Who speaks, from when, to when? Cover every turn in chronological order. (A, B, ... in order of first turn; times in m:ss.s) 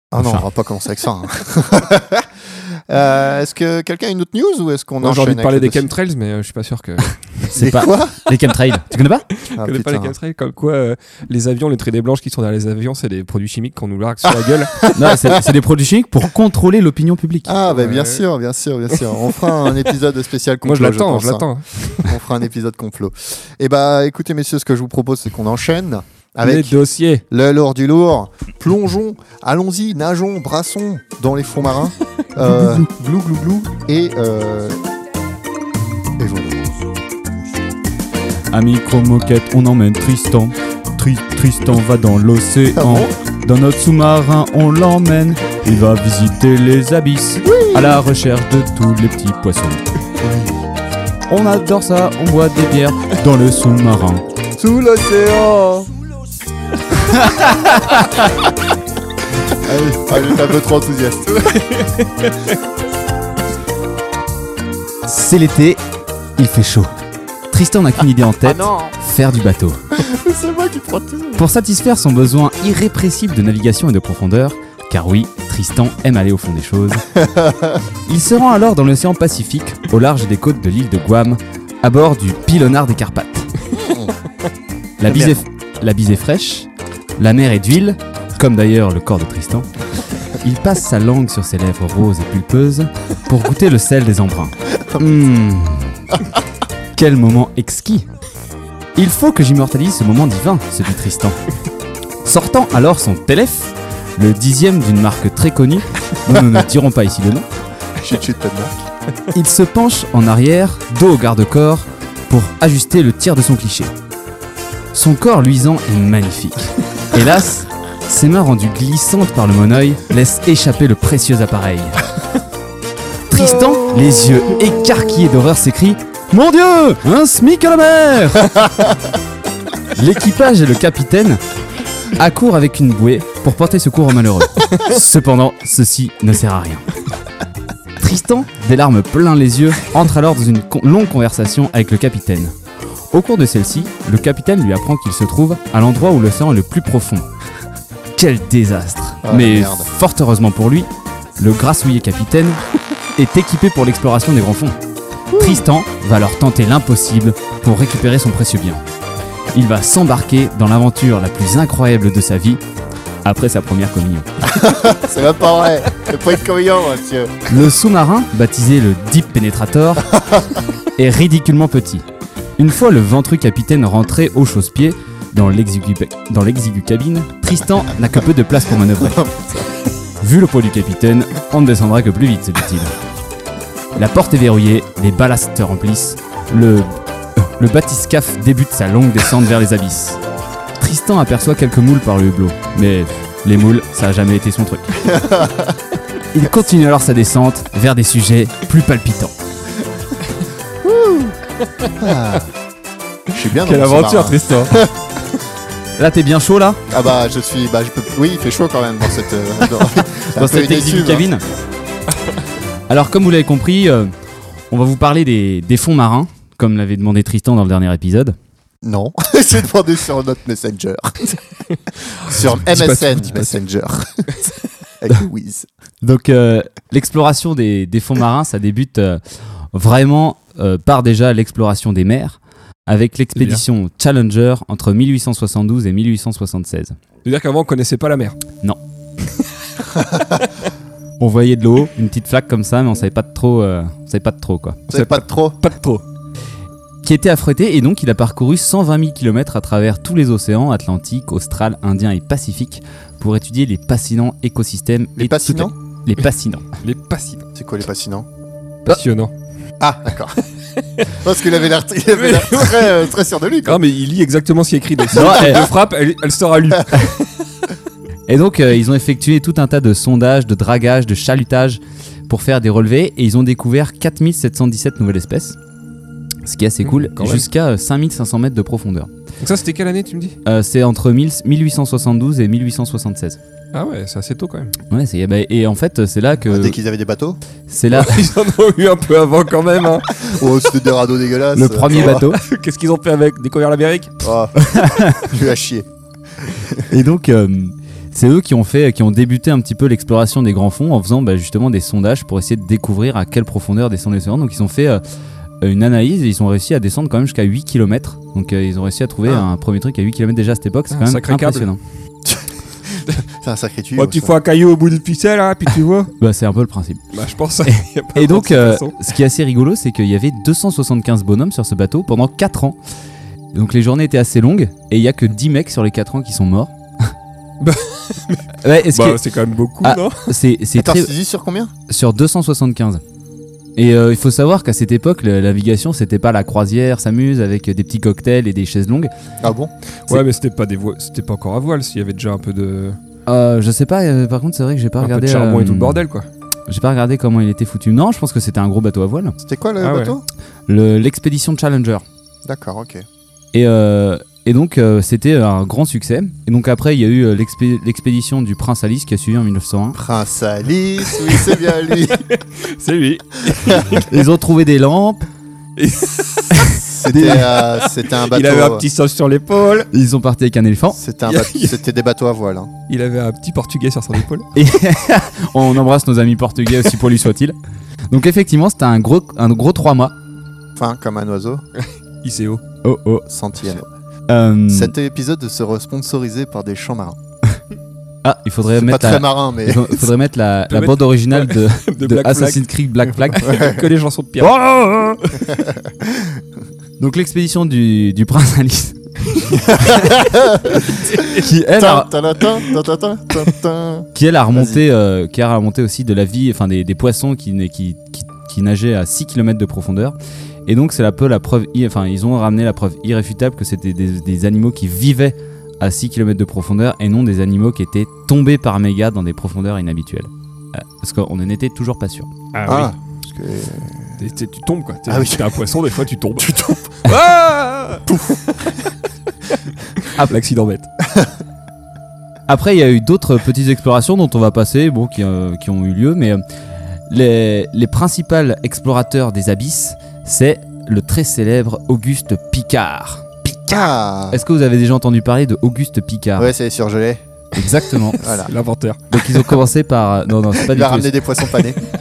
0:00.1-0:05.9 A
0:00.2-0:00.5 B
0:05.0-0:07.4 C
0:07.5-0:09.3 B
0:07.6-0:08.2 A
0:09.4-0:14.9 C
0:09.5-0:10.2 A
0:14.9-0:17.5 B
0:17.5-0:21.5 A
0:17.7-0:18.2 C
0:20.6-0:22.1 C
0:22.0-0:26.8 A
0:26.4-0:27.2 C
0:27.3-0:34.8 A
0:36.2-0:36.7 A
0:38.5-0:49.8 B
0:42.8-0:43.1 A
0:47.4-0:48.0 A
0:50.2-0:50.5 A
0:51.3-0:54.2 B
0:54.6-0:55.9 A
0:57.1-0:58.1 B
0:59.6-1:00.1 B
1:00.0-1:01.5 A
1:01.4-1:02.4 C
1:05.1-1:05.8 B
1:06.4-1:06.9 B
1:07.5-1:09.8 B
1:08.4-1:08.9 A
1:09.9-1:11.5 A
1:11.4-1:17.1 B
1:17.1-1:17.8 A
1:18.1-1:23.5 B
1:23.8-1:24.1 A
1:25.0-1:29.7 B
1:25.1-1:25.4 A
1:30.4-1:36.0 B
1:36.9-1:38.1 B
1:39.0-1:41.4 B
1:42.2-1:47.5 B
1:46.3-1:46.6 A
1:48.0-1:48.8 A
1:49.3-1:53.9 B
1:54.9-2:02.0 B
2:03.3-2:08.6 B
2:09.9-2:11.4 B
2:12.1-2:16.9 B
2:18.0-2:22.5 B
2:23.1-2:27.3 B
2:28.2-2:32.6 B
2:29.2-2:29.9 A
2:33.2-2:34.8 B
2:35.3-2:35.6 A
2:35.4-2:38.8 B
2:39.5-2:42.6 B
2:43.2-2:44.3 B
2:44.5-2:47.4 A
2:47.5-2:50.1 B
2:50.1-2:50.5 A
2:51.0-2:52.0 B
2:52.6-2:59.2 B
2:58.9-2:59.7 A
3:00.2-3:02.9 B
3:04.0-3:10.2 B
3:10.8-3:15.0 B
3:15.0-3:15.8 A
3:16.3-3:19.3 B
3:20.8-3:21.4 A
3:21.9-3:22.5 A
3:23.3-3:24.9 A
3:23.5-3:24.8 C
3:26.0-3:26.8 B
3:26.9-3:31.3 A
3:30.2-3:31.4 B
3:32.9-3:34.1 B
3:34.7-3:38.4 B
3:38.8-3:41.4 A
3:42.2-3:44.4 A
3:42.6-3:43.6 C
3:45.0-3:45.7 A
3:46.0-3:49.2 B
3:49.7-3:57.0 B
3:53.4-3:53.6 C
3:57.2-3:58.4 C
4:00.0-4:00.3 A
4:01.2-4:04.8 B
4:04.9-4:05.6 A
4:04.9-4:06.0 C
4:07.0-4:16.6 B
4:15.2-4:15.7 A
4:16.8-4:17.4 C
4:17.6-4:18.3 A
4:18.9-4:19.3 C
4:19.8-4:20.4 A
4:21.1-4:23.8 A
4:22.1-4:23.0 C
4:23.6-4:27.3 C
4:25.1-4:25.6 B
4:25.1-4:25.6 A
4:28.3-4:35.6 B
4:36.4-4:39.1 B
4:36.8-4:37.5 C
4:39.4-4:40.4 C
4:40.4-4:43.4 B
4:43.7-4:44.8 C
4:44.9-4:46.8 B
4:46.5-4:47.4 A
4:47.7-4:48.3 B
4:47.9-4:50.3 C
4:50.2-4:52.1 A
4:51.6-4:52.4 B
4:51.9-4:54.3 C
4:54.2-4:55.9 A
4:54.6-4:55.2 B
4:56.9-5:05.0 B
5:05.6-5:11.8 B
5:10.9-5:11.7 C
5:12.2-5:14.3 A
5:14.0-5:16.1 C
5:16.2-5:17.0 B
5:17.1-5:19.0 C
5:17.7-5:22.8 B
5:23.5-5:27.1 B
5:27.6-5:30.3 C
5:28.6-5:29.2 B
5:29.8-5:31.1 B
5:30.8-5:31.7 A
5:31.9-5:33.0 B
5:33.8-5:39.1 B
5:39.4-5:39.7 A
5:40.1-5:43.0 C
5:43.3-5:46.0 B
5:45.0-5:46.3 C
5:46.7-5:49.4 B
5:49.4-5:50.2 A
5:49.8-5:50.2 C
5:50.7-5:52.0 B
5:52.4-5:53.1 A
5:53.5-6:00.0 B
6:00.0-6:02.2 A
6:02.1-6:04.1 C
6:03.6-6:03.8 A
6:04.0-6:05.3 B
6:05.8-6:09.9 C
6:06.5-6:07.4 B
6:06.8-6:08.8 A
6:09.9-6:11.0 B
6:10.9-6:12.7 A
6:11.3-6:11.8 C
6:12.9-6:14.5 C
6:14.6-6:17.6 B
6:18.1-6:20.1 B
6:20.8-6:21.6 A
6:21.8-6:22.6 C
6:22.8-6:23.3 B
6:23.3-6:23.9 A
6:24.3-6:24.9 B
6:24.7-6:27.2 A
6:28.2-6:33.5 B
6:28.7-6:30.1 A
6:30.7-6:32.7 C
6:33.3-6:34.5 C
6:33.4-6:33.9 A
6:34.4-6:35.3 B
6:35.5-6:36.4 A
6:37.0-6:39.0 B
6:39.7-6:40.9 A
6:41.0-6:41.4 C
6:41.3-6:42.1 B
6:41.7-6:44.8 A
6:44.1-6:50.1 B
6:50.7-7:02.3 B
7:02.5-7:02.9 C
7:02.6-7:04.2 A
7:04.2-7:08.1 C
7:05.1-7:05.6 A
7:06.4-7:06.9 A
7:08.1-7:08.4 A
7:10.0-7:10.9 C
7:11.0-7:11.3 A
7:12.5-7:16.4 B
7:17.1-7:23.8 B
7:23.7-7:24.4 A
7:24.3-7:26.5 B
7:26.4-7:27.2 A
7:27.6-7:28.2 B
7:28.2-7:28.5 A
7:28.4-7:29.5 C
7:29.1-7:31.2 B
7:30.7-7:31.8 A